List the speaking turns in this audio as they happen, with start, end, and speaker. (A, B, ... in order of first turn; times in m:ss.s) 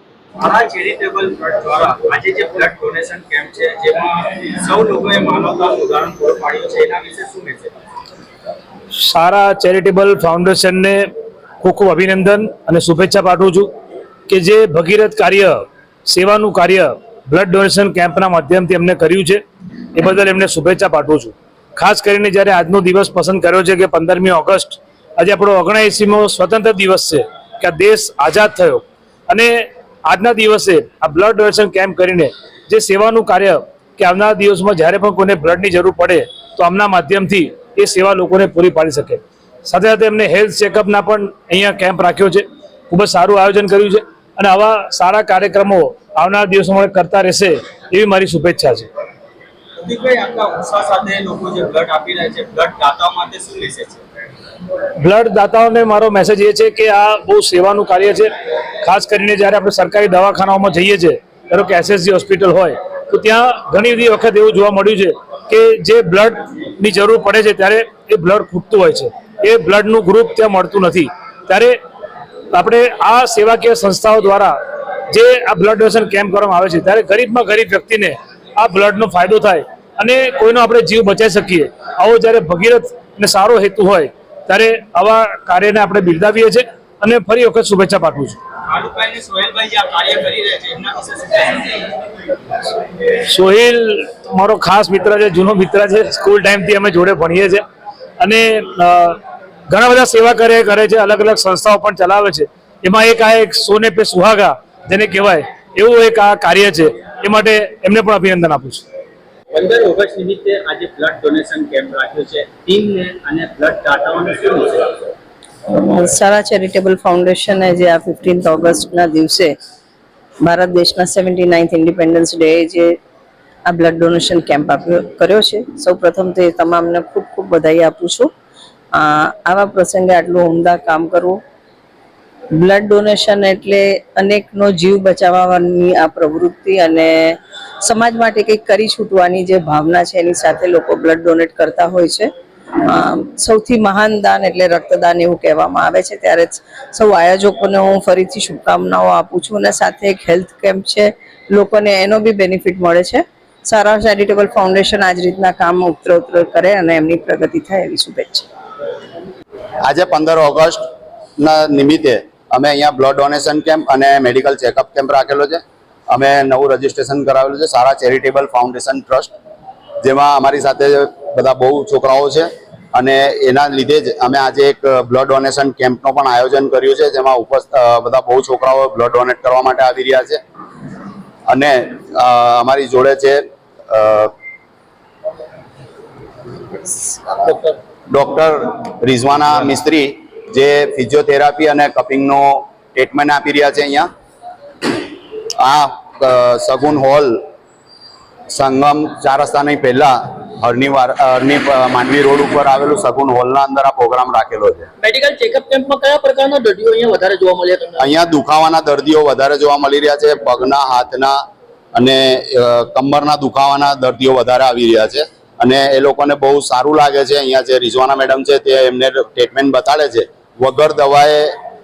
0:00.4-0:07.8 A
0:09.0-0:11.0 B
0:11.6-0:13.7 B
0:14.3-0:19.4 B
0:19.9-0:48.9 B
0:49.8-0:54.0 A
0:55.0-0:58.3 B
0:58.8-1:11.8 B
1:12.5-1:14.6 B
1:15.1-1:28.4 B
1:28.7-1:31.9 A
1:33.3-1:37.6 B
1:38.2-1:39.2 B
1:39.7-1:48.8 B
1:49.5-1:55.0 A
1:55.9-1:59.5 C
2:00.4-2:02.9 C
2:03.7-2:08.3 C
2:08.9-2:11.4 C
2:12.6-2:22.3 C
2:22.9-2:38.4 C
2:39.8-2:40.8 D
2:41.4-2:49.3 D
2:50.0-3:00.4 D
3:01.5-3:04.3 D
3:08.1-3:14.1 D
3:15.6-3:17.4 D
3:18.5-3:24.9 D
3:25.0-3:28.0 E
3:28.0-3:31.4 D
3:32.0-3:41.5 D